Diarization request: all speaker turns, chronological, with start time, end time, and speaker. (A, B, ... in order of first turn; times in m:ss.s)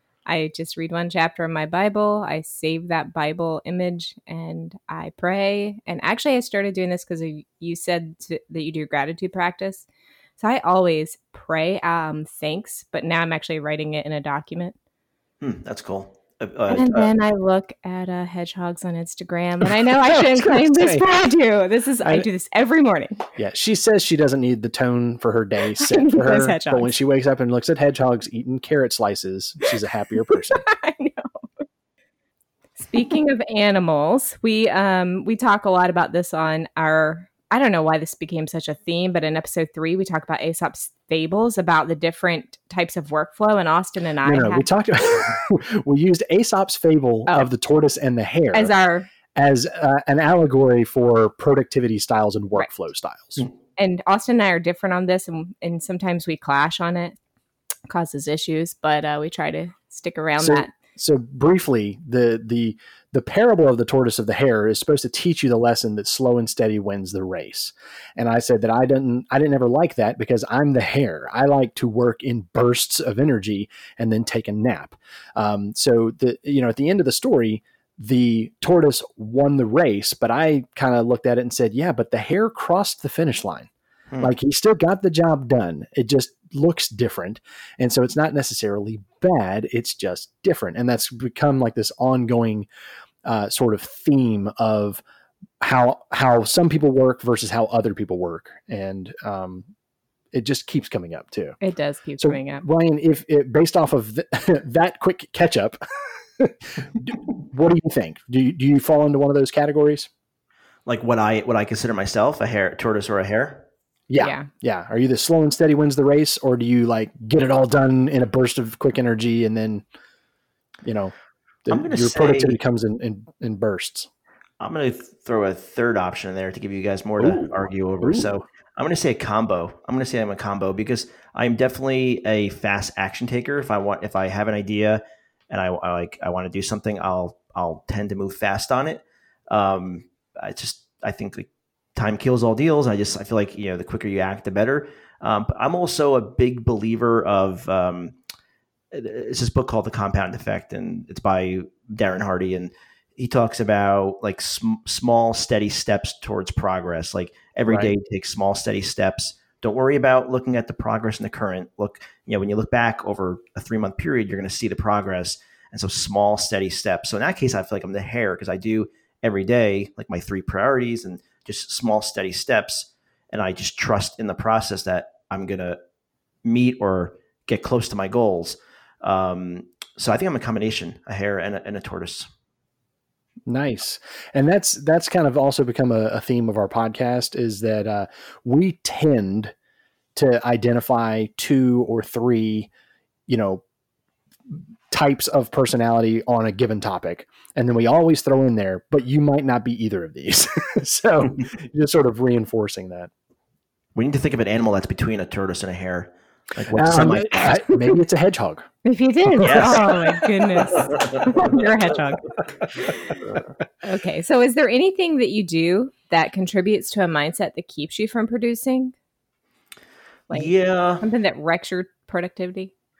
0:00.2-0:09.9 A
0:10.4-0:14.7 A
0:15.4-0:17.1 B
0:16.7-0:23.2 A
0:20.1-0:21.0 C
0:23.4-0:30.6 C
0:25.8-0:26.9 A
0:30.5-0:31.4 A
0:32.8-0:44.7 A
0:44.2-0:48.7 C
0:48.5-0:49.1 A
0:49.3-0:53.4 C
0:53.8-0:57.2 A
0:57.9-1:00.7 A
1:00.4-1:23.7 C
1:24.2-1:32.7 C
1:33.2-1:35.0 C
1:35.6-1:39.7 C
1:40.3-1:41.6 C
1:41.6-1:42.6 A
1:42.2-1:45.8 C
1:46.4-1:50.1 C
1:50.8-1:53.6 B
1:54.1-1:59.8 C
1:54.2-1:54.5 A
2:00.8-2:01.1 C
2:01.6-2:04.1 C
2:01.7-2:02.6 B
2:04.6-2:28.1 B
2:07.2-2:08.3 C
2:28.9-2:55.8 B
2:37.6-2:37.9 C
2:56.4-3:02.3 B
3:03.5-3:09.5 C
3:10.1-3:12.7 C
3:13.3-3:13.6 C
3:14.5-3:23.1 C
3:23.9-3:27.6 B
3:26.7-3:28.6 C
3:28.8-3:32.3 A
3:29.4-3:30.3 C
3:29.4-3:30.0 B
3:30.7-3:31.5 B
3:33.8-3:38.9 A
3:40.3-3:42.7 A
3:40.3-3:41.0 B